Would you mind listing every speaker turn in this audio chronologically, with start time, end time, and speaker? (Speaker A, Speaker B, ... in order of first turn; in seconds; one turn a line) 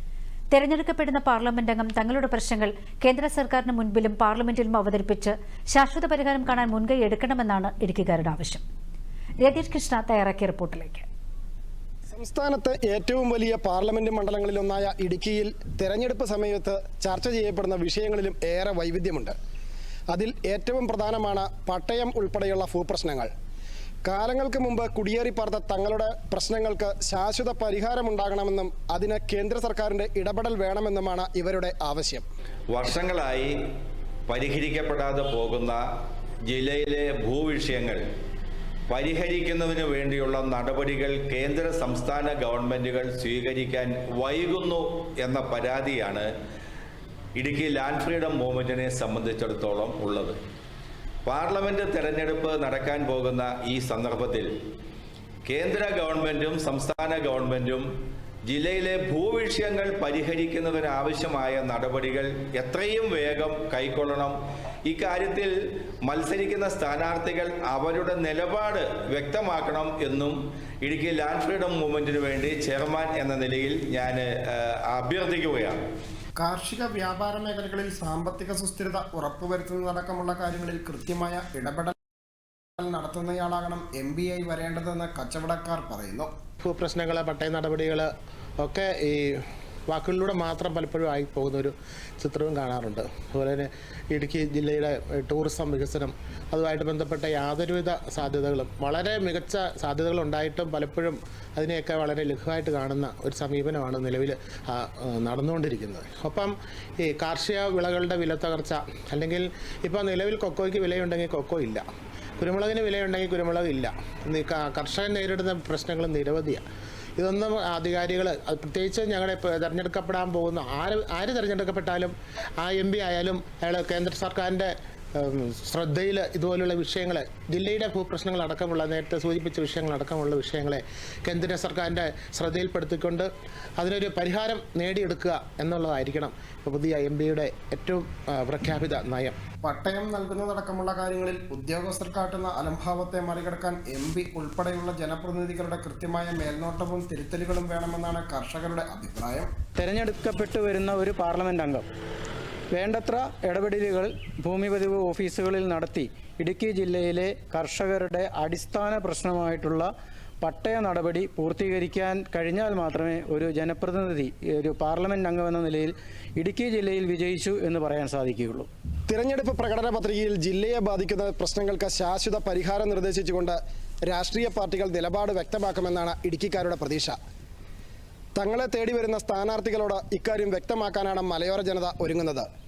Speaker A: 0.5-8.6
Speaker A: 9.4-11.1
Speaker B: 12.1-19.3
Speaker B: 20.1-23.3
Speaker B: 24.0-32.2
Speaker C: 32.7-33.5
Speaker C: 34.3-35.8
Speaker C: 36.5-38.0
Speaker C: 38.9-46.3
Speaker C: 47.4-50.4
Speaker C: 51.2-54.5
Speaker C: 55.5-57.9
Speaker C: 58.5-65.5
Speaker C: 66.0-75.8
Speaker B: 76.4-81.9
Speaker B: 82.8-86.3
Speaker D: 86.6-88.1
Speaker D: 88.6-111.8
Speaker D: 112.4-116.6
Speaker D: 117.2-139.4
Speaker B: 139.6-149.5
Speaker E: 149.8-151.9
Speaker E: 152.7-168.7
Speaker B: 169.1-177.2
Speaker B: 178.3-182.4